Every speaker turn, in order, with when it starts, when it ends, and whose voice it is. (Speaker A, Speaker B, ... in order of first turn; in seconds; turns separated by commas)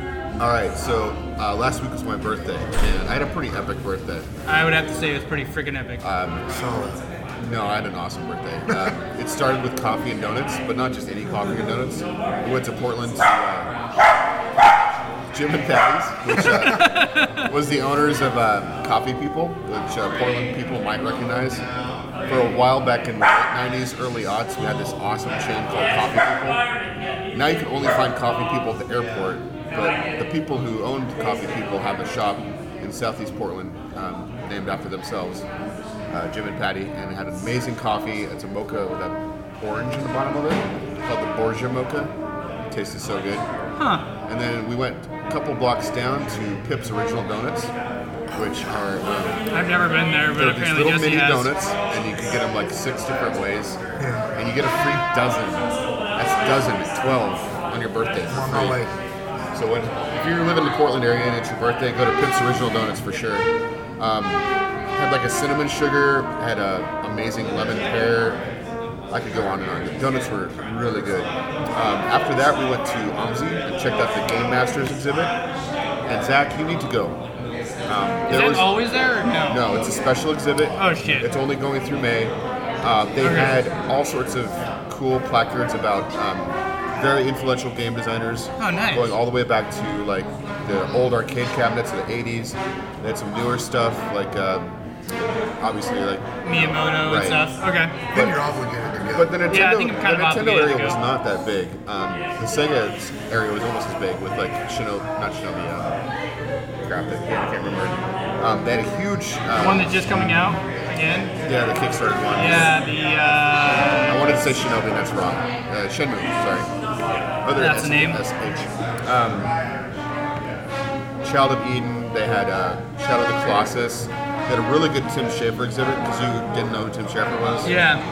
Speaker A: 0.4-4.3, Speaker B: 4.5-6.0, Speaker A: 6.0-6.4, Speaker C: 6.5-7.0, Speaker A: 7.4-13.7, Speaker A: 15.3-21.6, Speaker B: 16.6-17.5, Speaker A: 22.3-26.6, Speaker A: 27.3-35.5, Speaker A: 36.1-42.1, Speaker A: 42.7-43.5, Speaker B: 43.8-44.1, Speaker A: 44.3-47.7, Speaker A: 48.3-49.4, Speaker B: 49.5-51.5, Speaker A: 50.3-53.8, Speaker C: 54.0-54.3, Speaker A: 54.3-58.8, Speaker C: 58.3-58.9, Speaker A: 59.5-63.5, Speaker A: 64.0-64.4, Speaker A: 64.9-68.4, Speaker A: 69.1-75.3, Speaker A: 76.0-77.2, Speaker A: 77.9-78.8, Speaker B: 78.3-79.7, Speaker A: 79.5-94.7, Speaker B: 80.8-81.3, Speaker B: 83.2-83.5, Speaker B: 88.6-89.1, Speaker A: 95.6-97.5, Speaker B: 96.4-97.9, Speaker C: 98.1-99.3, Speaker A: 99.1-105.9, Speaker B: 99.5-101.0, Speaker A: 106.8-110.6, Speaker B: 109.6-111.3, Speaker A: 111.4-112.8, Speaker B: 112.3-114.2, Speaker A: 114.1-116.7, Speaker A: 117.4-119.5, Speaker B: 117.5-118.2, Speaker A: 121.2-127.8, Speaker B: 127.6-128.0